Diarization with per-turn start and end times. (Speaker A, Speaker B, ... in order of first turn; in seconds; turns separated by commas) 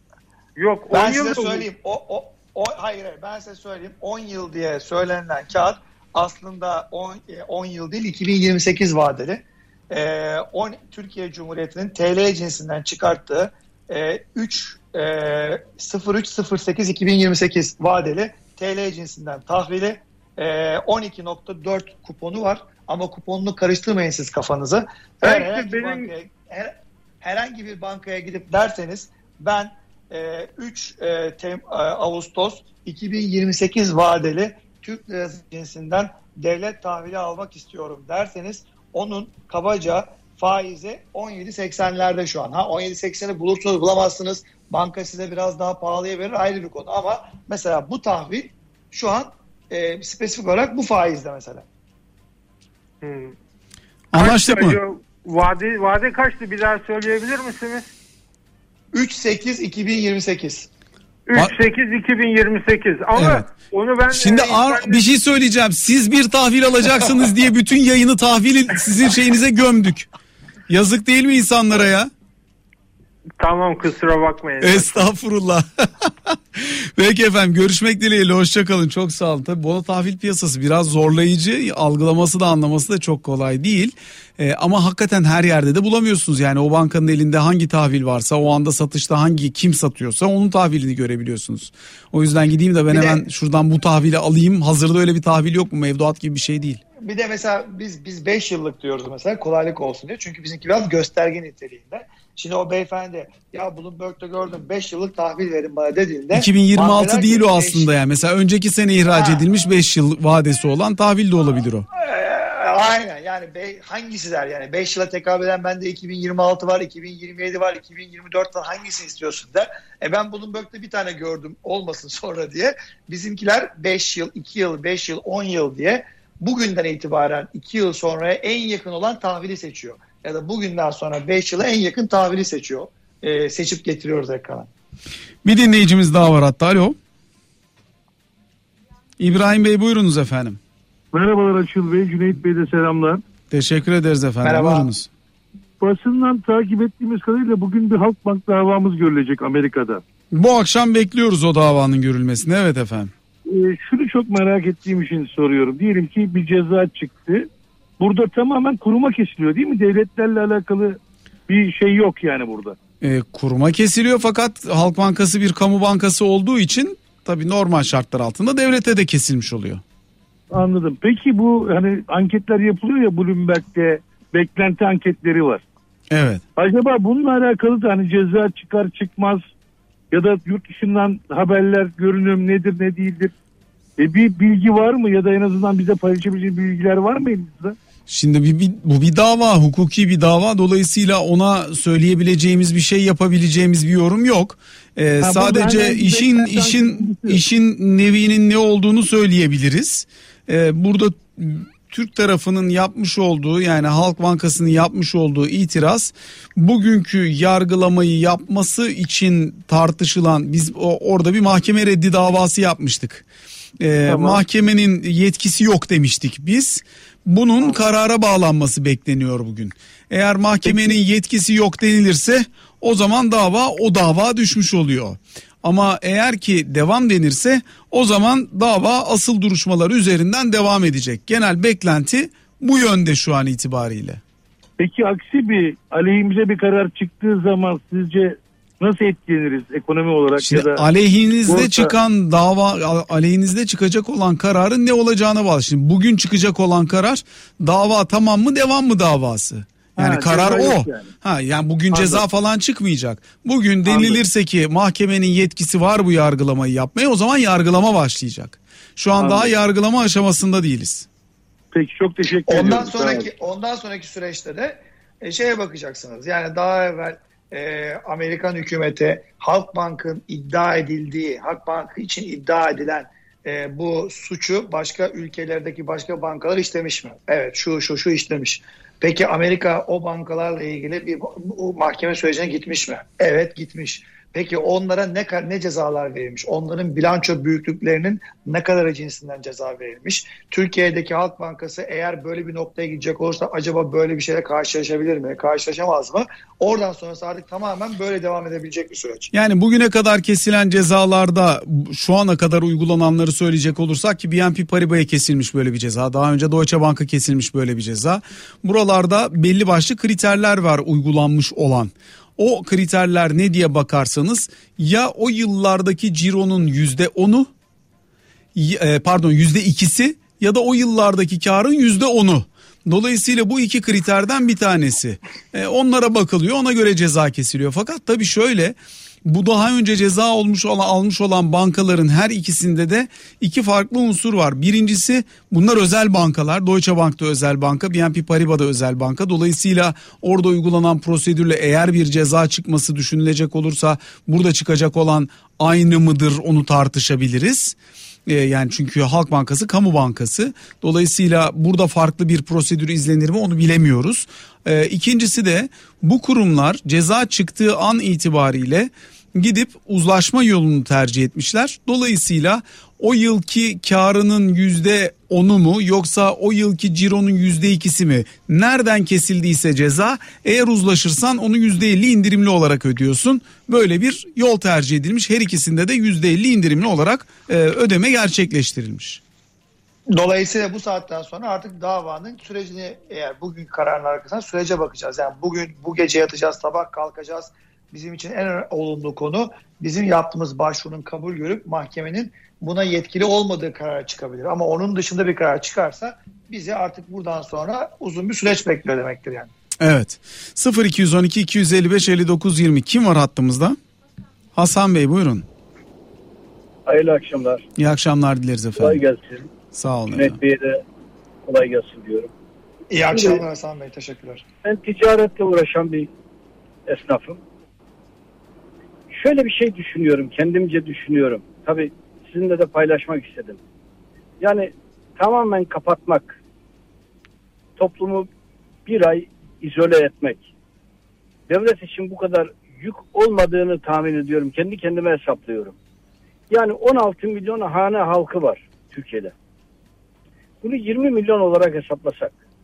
Speaker A: 0.6-1.6, Speaker B: 0.9-51.6, Speaker A: 25.2-26.1, Speaker A: 53.0-53.3, Speaker C: 54.1-54.8, Speaker A: 54.1-57.9, Speaker B: 58.9-60.7, Speaker A: 61.3-65.1, Speaker C: 63.1-63.5, Speaker C: 64.1-70.1, Speaker C: 70.7-72.1, Speaker A: 73.4-75.0, Speaker C: 74.6-96.8, Speaker B: 92.9-93.2, Speaker B: 97.0-107.9, Speaker C: 106.3-111.9, Speaker B: 109.1-109.5, Speaker B: 112.0-134.7, Speaker C: 135.4-137.0, Speaker C: 139.2-140.6, Speaker D: 141.1-143.2, Speaker C: 143.5-145.1, Speaker B: 144.4-144.9, Speaker D: 145.8-150.0, Speaker C: 150.3-153.1, Speaker D: 153.5-162.8, Speaker C: 163.0-169.8, Speaker D: 170.5-175.6, Speaker C: 176.1-176.4, Speaker D: 176.6-179.4, Speaker D: 180.1-183.3, Speaker D: 184.0-187.8, Speaker C: 188.1-213.2, Speaker D: 195.2-197.4, Speaker C: 213.8-234.2, Speaker D: 214.1-214.4, Speaker D: 220.7-220.9, Speaker D: 234.8-240.8, Speaker C: 240.4-261.1, Speaker D: 241.5-241.9, Speaker D: 250.0-251.1, Speaker D: 251.9-252.2, Speaker D: 253.9-254.2, Speaker D: 259.2-259.5, Speaker D: 261.7-263.3, Speaker B: 262.4-299.3, Speaker C: 299.3-317.5, Speaker C: 318.6-379.2, Speaker B: 380.1-399.5, Speaker C: 399.8-403.8, Speaker C: 404.6-405.5, Speaker E: 406.9-407.7, Speaker C: 407.8-409.0, Speaker E: 408.8-409.5, Speaker C: 409.7-410.4, Speaker E: 410.1-410.8, Speaker E: 411.4-412.3, Speaker B: 412.9-414.4, Speaker E: 413.1-413.4, Speaker E: 414.6-416.1, Speaker E: 416.9-417.4, Speaker E: 419.1-423.6, Speaker E: 424.4-426.4, Speaker E: 427.8-428.3, Speaker E: 428.9-430.5, Speaker E: 431.5-435.8, Speaker E: 436.5-439.3, Speaker E: 440.6-442.3